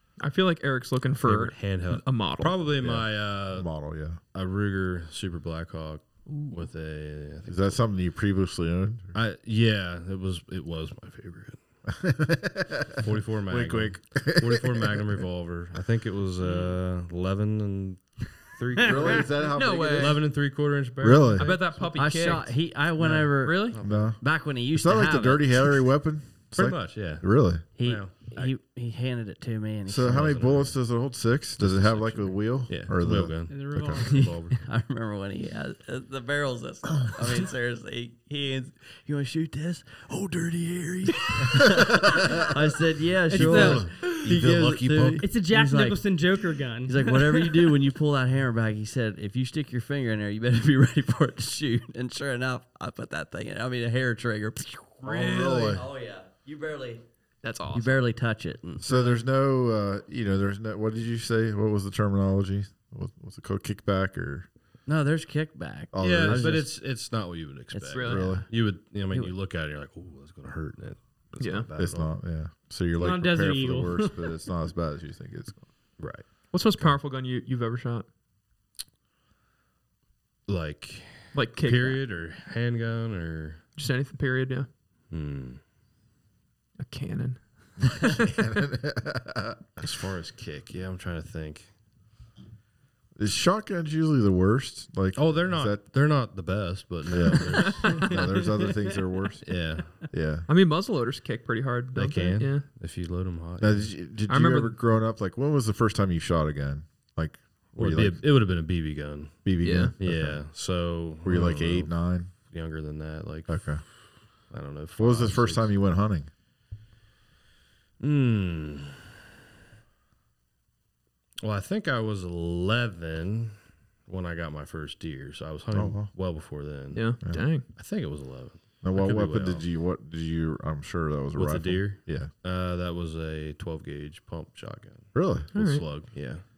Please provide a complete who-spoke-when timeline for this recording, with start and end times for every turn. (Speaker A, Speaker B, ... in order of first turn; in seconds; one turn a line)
Speaker A: 0.2-2.5
Speaker B: 1.2-3.7
Speaker C: 2.8-4.2
Speaker B: 4.3-7.8
Speaker C: 7.5-9.2
Speaker B: 9.1-11.6
Speaker C: 11.9-15.1
Speaker B: 12.9-21.8
Speaker A: 16.4-16.7
Speaker D: 18.8-19.3
Speaker C: 18.8-20.2
Speaker A: 19.4-20.2
Speaker C: 21.0-21.5
Speaker A: 21.3-22.5
Speaker E: 21.9-25.8
Speaker B: 23.0-24.1
Speaker A: 23.3-23.8
Speaker C: 23.8-24.2
Speaker C: 24.7-27.6
Speaker B: 26.5-28.5
Speaker E: 27.8-30.7
Speaker C: 29.9-34.0
Speaker B: 30.2-30.7
Speaker B: 31.6-34.6
Speaker D: 33.5-34.3
Speaker E: 34.0-46.0
Speaker C: 41.5-42.4
Speaker D: 43.3-43.9
Speaker C: 43.3-45.2
Speaker B: 44.3-44.5
Speaker D: 45.2-47.6
Speaker E: 46.8-57.0
Speaker C: 55.0-55.8
Speaker A: 57.4-57.9
Speaker E: 57.7-59.1
Speaker C: 58.8-64.5
Speaker E: 64.8-66.7
Speaker C: 65.9-66.6
Speaker B: 66.0-72.1
Speaker E: 67.7-68.5
Speaker A: 67.9-68.2
Speaker C: 68.0-68.5
Speaker A: 71.4-71.7
Speaker C: 71.8-75.7
Speaker D: 73.0-74.3
Speaker B: 76.0-76.3
Speaker A: 76.5-78.0
Speaker B: 80.5-83.7
Speaker A: 81.3-82.0
Speaker A: 83.8-84.7
Speaker B: 85.1-85.6
Speaker A: 86.8-88.3
Speaker C: 87.8-89.9
Speaker B: 89.8-91.7
Speaker C: 93.2-95.8
Speaker B: 95.2-98.5
Speaker C: 97.1-99.5
Speaker A: 97.8-98.1
Speaker D: 98.0-98.9
Speaker B: 99.4-99.9
Speaker C: 100.0-100.5
Speaker A: 100.5-102.7
Speaker B: 101.9-103.9
Speaker C: 103.6-108.2
Speaker A: 104.3-104.8
Speaker B: 107.8-109.5
Speaker C: 109.4-110.4
Speaker A: 109.6-109.9
Speaker B: 110.0-111.9
Speaker C: 111.2-112.3
Speaker B: 112.5-113.7
Speaker C: 113.5-113.8
Speaker B: 114.5-115.7
Speaker C: 115.0-116.3
Speaker B: 118.0-119.1
Speaker B: 121.4-127.1
Speaker C: 125.7-126.1
Speaker A: 126.9-127.7
Speaker B: 127.7-129.6
Speaker C: 128.8-132.3
Speaker B: 131.3-136.4
Speaker C: 135.1-135.5
Speaker A: 135.5-135.8